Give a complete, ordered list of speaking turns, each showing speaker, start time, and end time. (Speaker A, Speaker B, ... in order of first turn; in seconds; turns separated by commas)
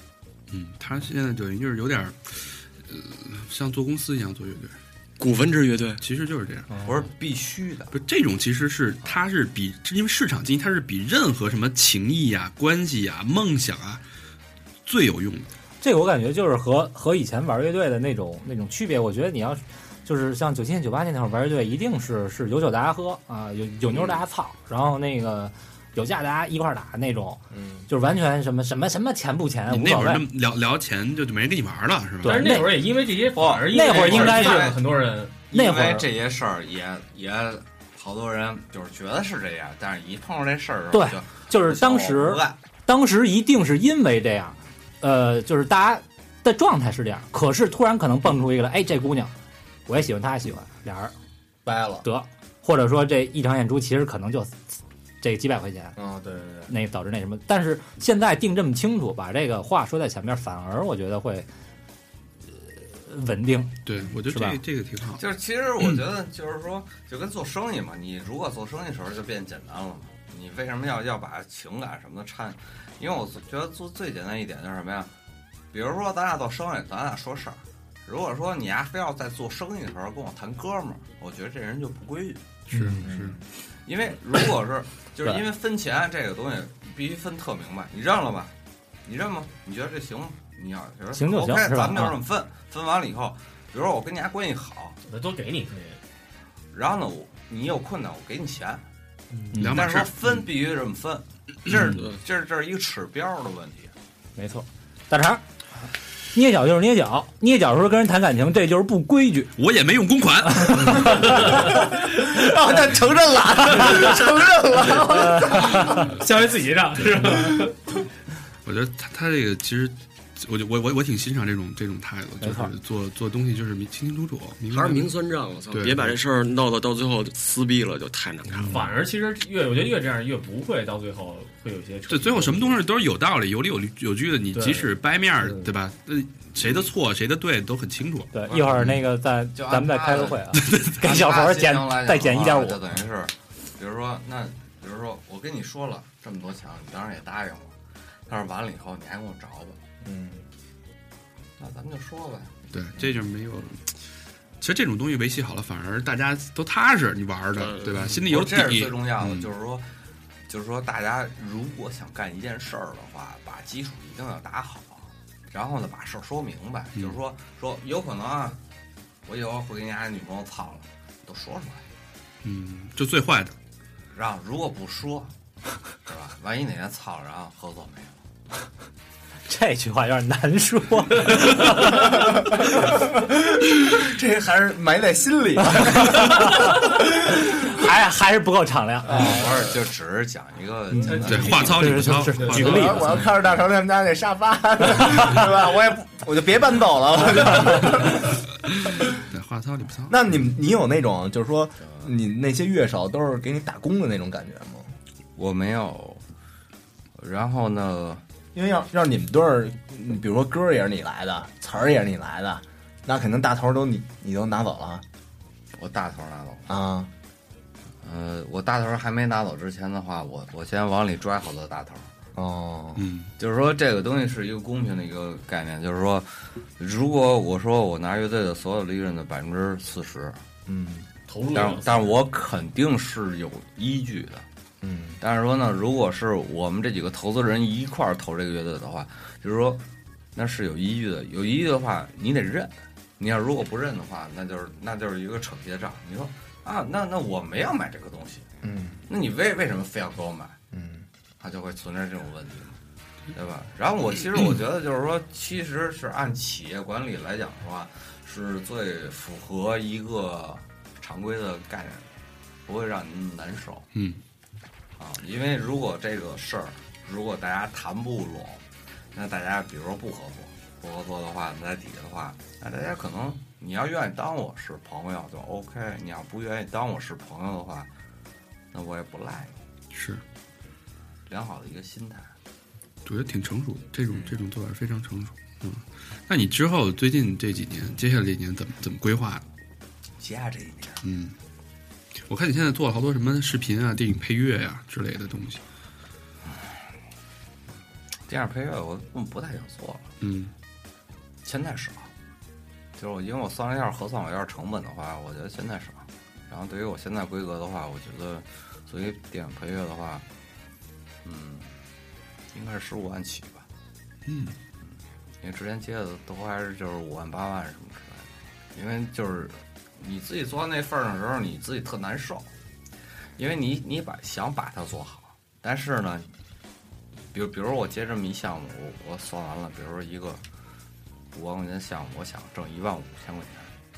Speaker A: 0.5-4.8, Speaker B: 5.2-6.0, Speaker A: 6.0-6.7, Speaker C: 6.8-7.9, Speaker A: 7.9-14.0, Speaker A: 14.8-15.5, Speaker D: 15.8-30.2, Speaker E: 27.5-27.9, Speaker A: 29.7-32.4, Speaker F: 32.2-35.4, Speaker D: 32.2-32.7, Speaker D: 33.7-34.7, Speaker C: 33.9-34.8, Speaker C: 35.5-42.6, Speaker D: 35.5-36.1, Speaker D: 40.9-49.3, Speaker D: 49.9-51.1, Speaker E: 51.6-52.0, Speaker D: 52.0-56.0, Speaker E: 56.0-56.7, Speaker D: 56.7-61.5, Speaker D: 62.5-63.7, Speaker A: 63.8-65.2, Speaker D: 64.2-64.6, Speaker C: 65.2-75.1, Speaker C: 75.7-88.5, Speaker A: 82.7-83.1, Speaker E: 83.0-83.4, Speaker C: 89.0-95.0, Speaker D: 91.1-92.2, Speaker F: 95.1-96.0, Speaker C: 96.7-98.8, Speaker F: 99.3-99.7, Speaker A: 99.6-100.5, Speaker C: 99.6-103.9, Speaker A: 101.7-102.0, Speaker B: 101.9-102.2, Speaker D: 104.3-105.4, Speaker D: 106.3-109.5, Speaker A: 109.5-111.7, Speaker D: 110.5-111.6, Speaker E: 111.5-116.0, Speaker D: 115.0-116.0, Speaker F: 116.2-117.8, Speaker A: 118.6-125.1, Speaker D: 122.4-122.7, Speaker B: 124.7-128.8, Speaker A: 125.7-126.2, Speaker A: 128.5-128.9, Speaker F: 128.7-132.8, Speaker A: 132.1-138.3, Speaker F: 134.5-135.7, Speaker D: 138.3-142.8, Speaker C: 138.5-147.7, Speaker A: 140.6-140.9, Speaker C: 148.3-149.8, Speaker E: 150.0-150.4, Speaker C: 151.6-152.5, Speaker A: 152.7-153.9, Speaker A: 154.6-159.5, Speaker B: 157.6-158.2, Speaker C: 158.2-159.9, Speaker C: 160.5-168.6, Speaker C: 169.2-171.8, Speaker A: 172.4-173.5, Speaker C: 174.1-175.3, Speaker C: 176.0-178.2, Speaker D: 179.4-182.1, Speaker E: 182.2-187.7, Speaker D: 185.7-186.9, Speaker D: 187.5-189.5, Speaker E: 189.1-189.6, Speaker C: 189.2-191.7, Speaker F: 189.2-189.7, Speaker D: 190.9-193.2, Speaker F: 191.0-193.2, Speaker A: 191.2-193.3, Speaker E: 192.7-198.4, Speaker D: 195.0-195.3, Speaker A: 199.0-200.2, Speaker E: 200.1-204.9, Speaker C: 205.3-206.2, Speaker C: 207.2-208.2, Speaker E: 208.5-215.0, Speaker C: 215.7-216.7, Speaker E: 216.7-217.1, Speaker C: 218.0-222.1, Speaker E: 222.3-223.1, Speaker A: 222.9-223.3, Speaker C: 223.4-230.4, Speaker E: 230.7-231.1, Speaker F: 231.3-232.1, Speaker C: 231.5-234.4, Speaker E: 234.8-235.2, Speaker C: 235.2-239.8, Speaker C: 240.3-248.5, Speaker E: 248.6-249.0, Speaker C: 249.1-250.6, Speaker E: 250.7-251.1, Speaker C: 251.4-252.8, Speaker C: 253.3-262.1, Speaker C: 262.6-263.9, Speaker A: 263.9-264.2, Speaker C: 265.0-277.9, Speaker C: 278.7-279.5, Speaker A: 279.9-280.2, Speaker C: 281.3-282.3, Speaker A: 283.0-289.4, Speaker C: 290.2-291.0, Speaker A: 291.0-291.3, Speaker A: 292.2-295.6, Speaker C: 298.3-300.1, Speaker A: 300.2-300.5, Speaker C: 301.4-302.1, Speaker C: 303.0-310.2, Speaker C: 311.2-311.7, Speaker C: 312.5-313.6, Speaker A: 314.2-314.6, Speaker C: 315.4-322.5, Speaker C: 323.4-326.3, Speaker C: 327.3-330.4, Speaker C: 331.3-333.7